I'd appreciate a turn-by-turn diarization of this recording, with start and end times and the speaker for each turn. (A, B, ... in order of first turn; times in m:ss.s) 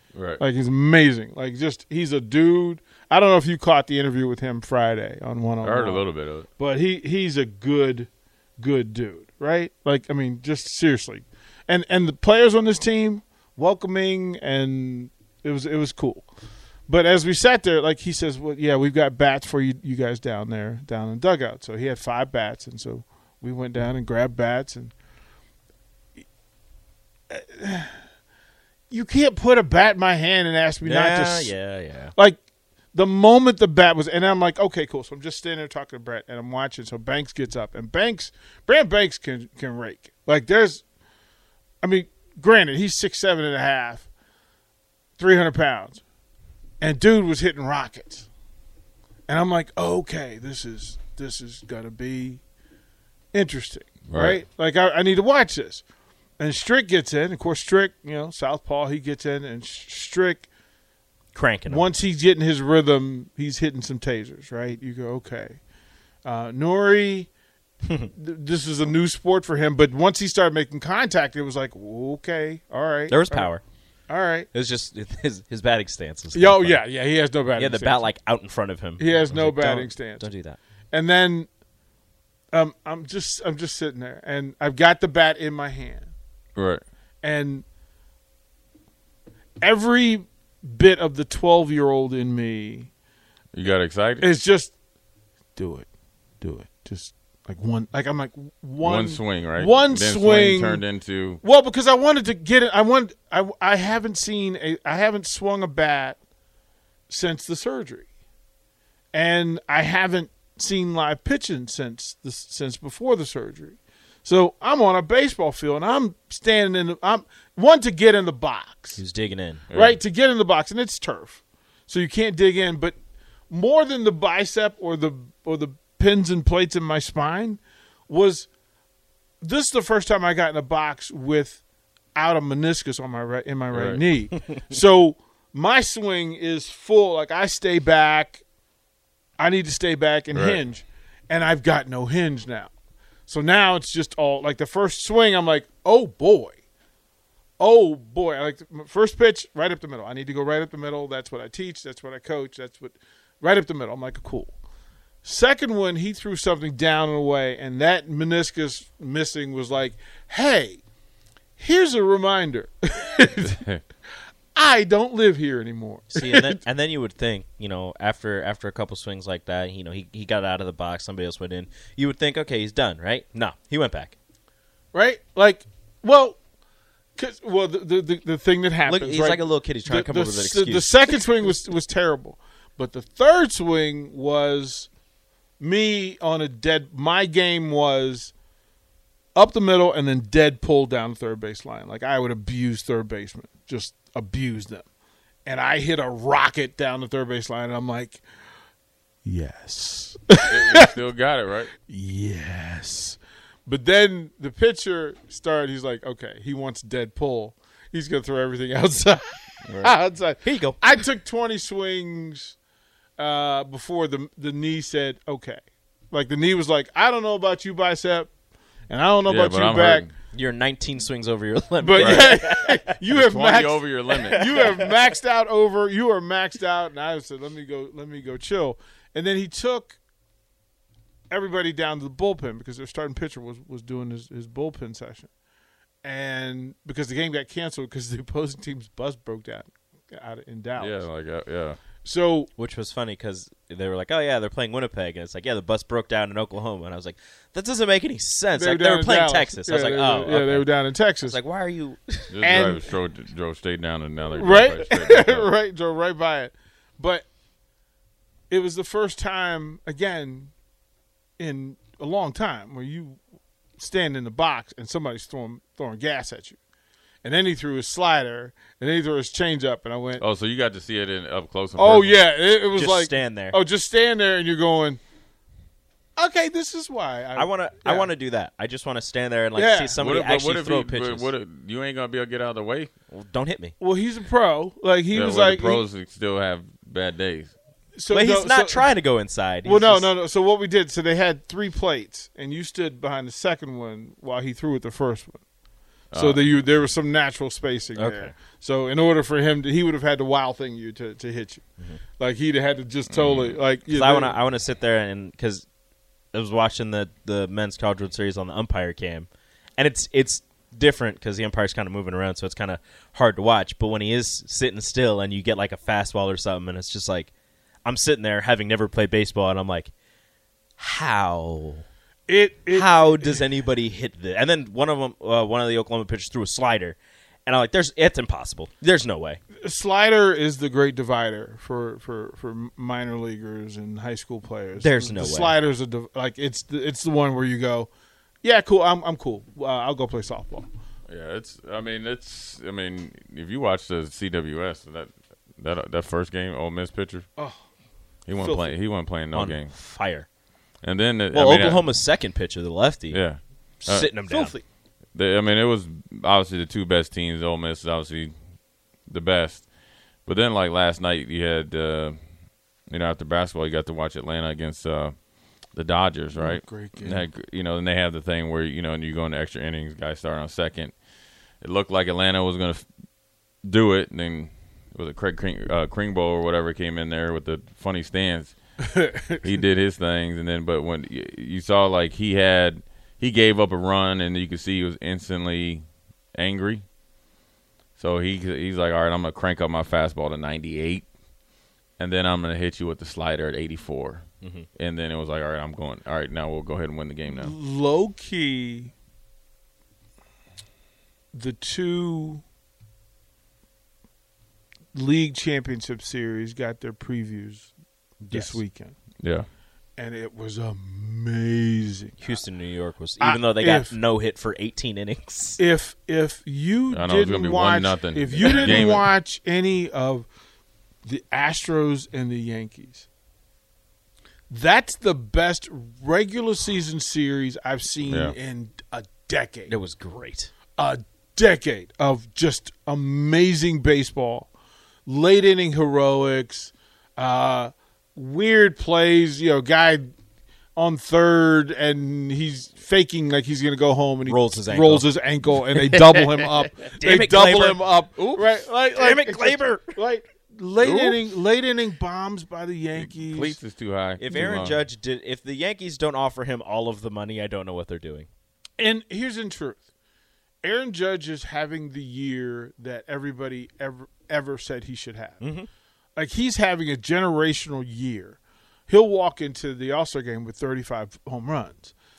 0:00.1-0:00.4 A
0:00.4-0:06.0 B
0:05.6-0:06.5 A
0:06.6-0:16.3 B
0:16.9-0:24.9 B
0:27.3-0:28.0 B
0:28.9-0:31.5 B
0:30.8-0:32.1 C
0:32.9-0:40.8 B
0:41.8-0:44.1 B
0:45.2-0:46.0 B
0:46.8-0:48.3 B
0:49.3-0:52.4 B
0:53.3-0:55.8 B
0:54.1-0:54.4 A
0:56.4-1:00.5 B
1:01.3-1:01.9 C
1:01.7-1:05.6 B
1:06.2-1:07.3 B
1:08.1-1:13.5 B
1:13.1-1:13.6 C
1:14.1-1:14.5 B
1:14.5-1:16.8 C
1:16.3-1:18.1 B
1:17.5-1:20.6 C
1:19.0-1:20.3 B
1:20.9-1:21.5 B
1:22.5-1:26.1 B
1:26.6-1:26.8 A
1:27.2-1:27.6 B
1:29.6-1:32.9 B
1:33.5-1:34.3 A
1:34.2-1:34.7 B
1:35.6-1:35.9 B
1:36.4-1:40.8 B
1:38.8-1:41.4 A
1:41.4-1:46.2 B
1:47.1-1:48.0 B
1:49.1-1:59.0 B
1:59.0-1:59.7 C
1:59.7-2:00.0 A
1:59.7-2:03.0 B
2:03.5-2:08.5 B
2:09.4-2:11.6 B
2:12.1-2:18.4 B
2:13.7-2:14.0 A
2:19.4-2:22.7 B
2:20.3-2:20.6 A
2:23.3-2:26.6 B
2:27.6-2:34.6 B
2:35.2-2:40.8 B
2:41.6-2:43.6 B
2:43.4-2:43.8 A
2:44.5-2:46.6 B
2:46.1-2:54.2 C
2:54.9-2:56.4 B
2:57.2-3:04.9 B
2:58.8-3:01.2 C
3:05.6-3:08.3 B
3:09.3-3:14.8 B
3:15.4-3:18.2 B
3:19.2-3:20.9 B
3:20.5-3:21.7 A
3:21.8-3:32.6 B
3:29.6-3:30.0 A
3:30.4-3:30.8 C
3:33.2-3:38.3 B
3:38.9-3:40.1 B
3:39.2-3:40.1 A
3:40.3-3:43.0 C
3:41.8-3:50.0 B
3:42.0-3:42.3 A
3:43.1-3:44.7 A
3:44.1-3:45.0 C
3:51.3-3:55.3 B
3:56.0-4:01.0 B
4:00.8-4:01.8 A
4:02.0-4:02.5 B
4:02.6-4:12.3 C
4:08.5-4:11.4 B
4:12.3-4:15.5 A
4:12.4-4:12.9 B
4:14.3-4:17.2 B
4:18.5-4:20.5 B
4:21.4-4:23.2 B
4:23.8-4:26.6 B
4:27.2-4:30.2 B
4:30.2-4:32.2 A
4:31.8-4:35.0 B
4:32.7-4:33.6 C
4:36.2-4:38.1 B
4:37.3-4:41.3 C
4:39.5-4:40.0 B
4:40.0-4:42.9 A
4:43.1-4:43.7 C
4:43.8-4:45.8 B
4:45.1-4:47.5 A
4:47.9-4:48.9 B
4:48.1-4:50.1 C
4:49.6-4:55.4 B
4:56.1-4:56.5 A
4:56.1-5:01.6 B
4:58.0-4:58.3 C
5:02.2-5:04.4 B
5:03.1-5:03.6 A
5:03.9-5:05.6 C
5:06.3-5:17.3 C
5:17.8-5:19.9 C
5:20.8-5:21.8 C
5:22.3-5:23.4 B
5:22.7-5:29.4 C
5:29.6-5:37.9 B
5:34.8-5:35.6 C
5:38.4-5:40.7 B
5:41.1-5:47.2 A
5:47.4-5:47.6 B
5:48.3-5:49.7 A
5:48.3-5:48.7 B
5:49.3-5:50.3 C
5:50.8-5:51.9 A
5:51.3-5:53.2 C
5:53.1-5:54.2 A
5:53.8-5:54.6 C
5:54.3-5:54.6 B
5:55.1-5:58.3 A
5:59.1-5:59.6 A
6:00.2-6:02.2 A
6:02.9-6:05.1 A
6:05.7-6:10.9 A
6:06.3-6:07.3 B
6:11.6-6:12.8 A
6:13.6-6:18.6 A
6:18.8-6:19.4 B
6:19.4-6:26.8 A
6:28.0-6:31.0 A
6:32.0-6:34.2 A
6:34.4-6:34.7 C
6:34.8-6:37.5 A
6:37.3-6:38.9 B
6:41.3-6:42.4 B
6:44.9-6:47.7 B
6:48.2-6:48.6 C
6:48.3-6:49.0 B
6:49.2-6:49.5 A
6:50.0-6:52.4 B
6:52.2-6:55.6 C
6:53.2-6:53.9 B
6:55.6-7:00.3 B
6:56.9-6:59.1 A
6:58.3-6:58.9 C
7:01.0-7:03.0 B
7:04.5-7:09.7 B
7:08.0-7:08.3 A
7:09.7-7:10.5 C
7:10.8-7:14.5 B
7:15.0-7:20.1 B
7:20.8-7:33.6 B
7:24.2-7:25.1 C
7:26.9-7:27.8 C
7:28.2-7:28.5 A
7:28.9-7:30.0 C
7:30.8-7:31.2 A
7:32.9-7:34.8 A
7:34.2-7:38.3 C
7:34.3-7:34.7 B
7:38.8-7:39.8 B
7:40.6-7:45.4 B
7:45.4-7:45.7 C
7:46.2-7:51.9 B